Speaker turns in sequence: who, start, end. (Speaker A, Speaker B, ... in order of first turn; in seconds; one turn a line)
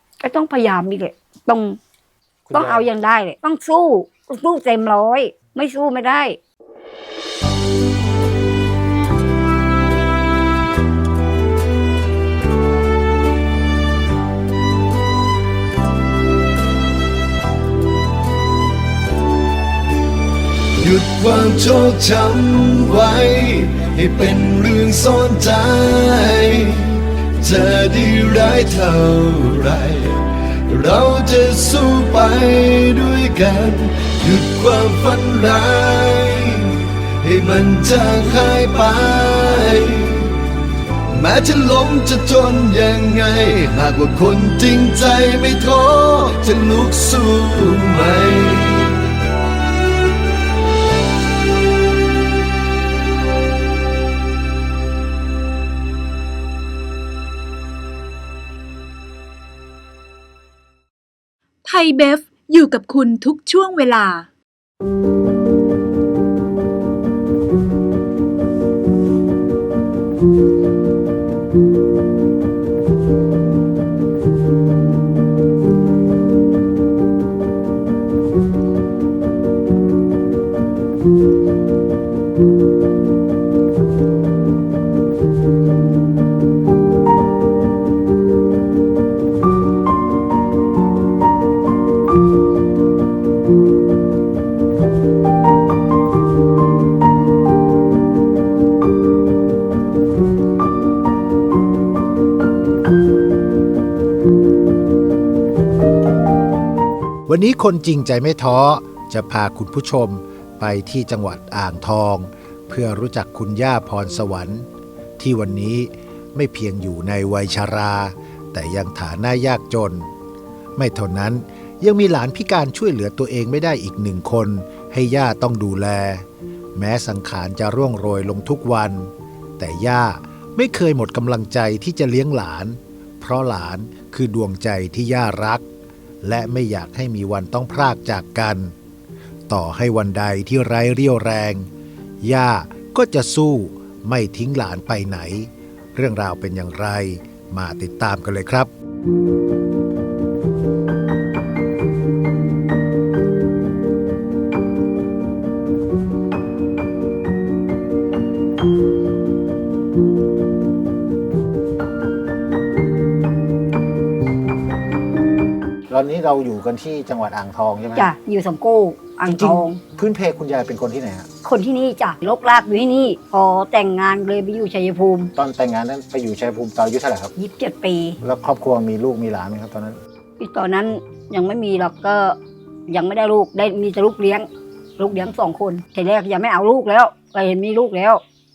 Speaker A: 0.2-1.8
Speaker B: 2.5-2.9
Speaker A: 2.5-6.4
Speaker C: 20.8-40.4
Speaker C: 41.1-49.0
Speaker D: 61.6-64.3
Speaker E: 107.2-114.7
Speaker E: 115.2-120.1
Speaker E: 120.8-135.7
Speaker E: 136.2-138.7
Speaker E: 139.5-141.7
Speaker E: 142.2-148.7
Speaker B: 165.9-168.1
Speaker A: 168.0-169.8
Speaker B: 169.3-171.3
Speaker A: 171.4-175.3
Speaker B: 175.3-177.3
Speaker A: 177.4-178.2
Speaker B: 178.2-180.0
Speaker A: 180.4-182.4
Speaker A: 182.9-188.2